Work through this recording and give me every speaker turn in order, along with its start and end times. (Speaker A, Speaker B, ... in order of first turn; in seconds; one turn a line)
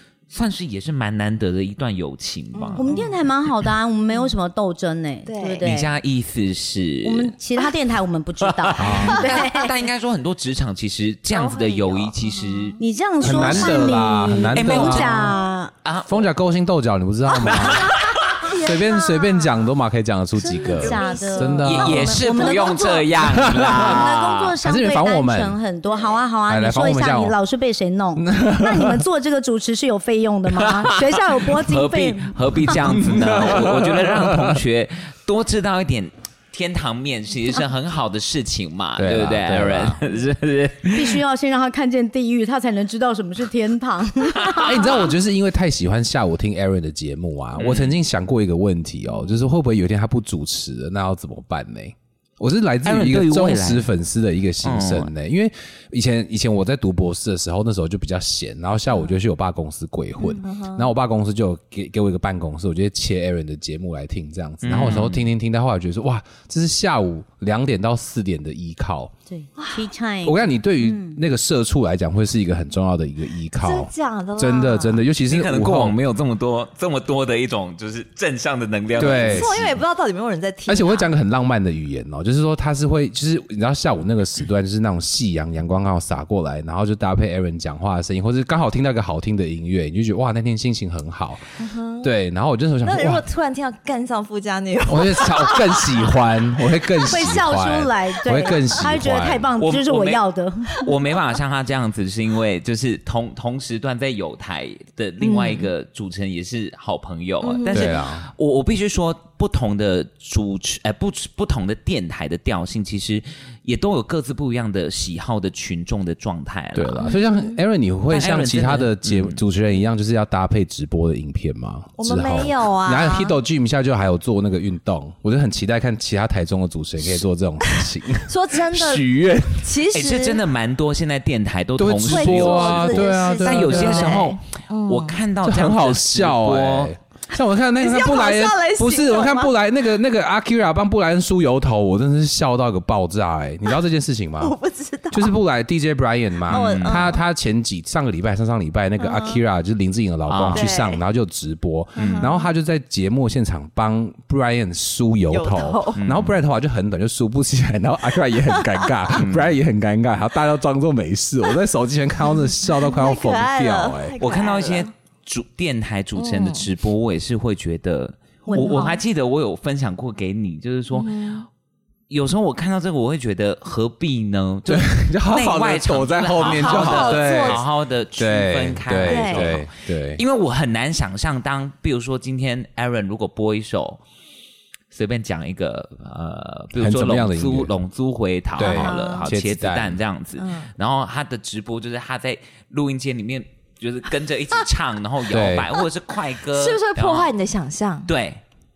Speaker A: 0.3-2.9
Speaker B: 2.5-3.2
Speaker C: 2.8-5.9
Speaker B: 5.2-5.7
Speaker A: 5.6-7.3
Speaker C: 7.0-9.7
Speaker A: 8.5-12.8
Speaker D: 8.8-9.2
Speaker B: 11.3-12.8
Speaker C: 12.8-15.7
Speaker D: 13.2-15.4
Speaker A: 13.3-13.7
Speaker A: 14.5-16.3
Speaker D: 16.1-22.2
Speaker A: 17.5-18.4
Speaker B: 18.4-19.7
Speaker B: 20.4-22.8
Speaker C: 20.7-32.8
Speaker A: 21.6-24.5
Speaker D: 23.2-24.1
Speaker D: 24.6-25.6
Speaker B: 25.9-26.2
Speaker D: 26.5-27.4
Speaker D: 28.2-29.0
Speaker A: 30.7-41.2
Speaker D: 32.7-34.6
Speaker D: 39.0-40.0
Speaker C: 40.9-45.1
Speaker D: 44.6-69.1
Speaker A: 47.6-48.0
Speaker A: 52.8-53.9
Speaker A: 54.6-55.1
Speaker B: 60.2-60.9
Speaker A: 64.6-65.2
Speaker C: 69.3-71.2
Speaker B: 69.6-69.9
Speaker D: 70.2-76.0
Speaker B: 73.6-75.0
Speaker A: 75.3-79.8
Speaker D: 78.9-79.6
Speaker B: 79.0-81.1
Speaker D: 80.7-93.2
Speaker B: 91.6-92.1
Speaker B: 92.8-96.1
Speaker D: 94.9-99.5
Speaker B: 97.0-97.3
Speaker C: 97.1-100.9
Speaker A: 99.6-100.2
Speaker A: 100.8-117.1
Speaker B: 105.2-105.7
Speaker B: 107.4-108.0
Speaker D: 107.7-108.3
Speaker D: 116.7-129.7
Speaker B: 117.0-117.6
Speaker A: 118.1-119.4
Speaker B: 122.0-123.4
Speaker B: 127.6-130.4
Speaker A: 129.9-136.9
Speaker D: 131.8-134.3
Speaker B: 132.1-135.2
Speaker D: 135.4-144.5
Speaker B: 137.8-139.5
Speaker B: 144.4-145.4
Speaker D: 145.1-164.1
Speaker B: 146.5-147.2
Speaker A: 146.5-147.1
Speaker B: 149.0-149.4
Speaker A: 150.3-150.7
Speaker B: 150.5-151.0
Speaker A: 152.0-152.3
Speaker B: 152.0-152.5
Speaker B: 155.3-156.0
Speaker A: 156.0-156.3
Speaker B: 158.5-158.9
Speaker A: 159.1-159.5
Speaker B: 162.3-164.9
Speaker A: 164.2-171.4
Speaker B: 166.2-166.7
Speaker C: 168.5-169.0
Speaker B: 170.9-171.4
Speaker A: 172.1-184.0
Speaker D: 174.7-177.6
Speaker B: 176.4-177.6
Speaker D: 178.2-180.2
Speaker B: 179.1-179.6
Speaker A: 184.9-197.3
Speaker D: 186.7-187.7
Speaker D: 188.6-190.0
Speaker B: 188.6-189.3
Speaker B: 190.4-190.7
Speaker D: 195.3-195.7
Speaker B: 196.5-198.1
Speaker A: 198.1-198.4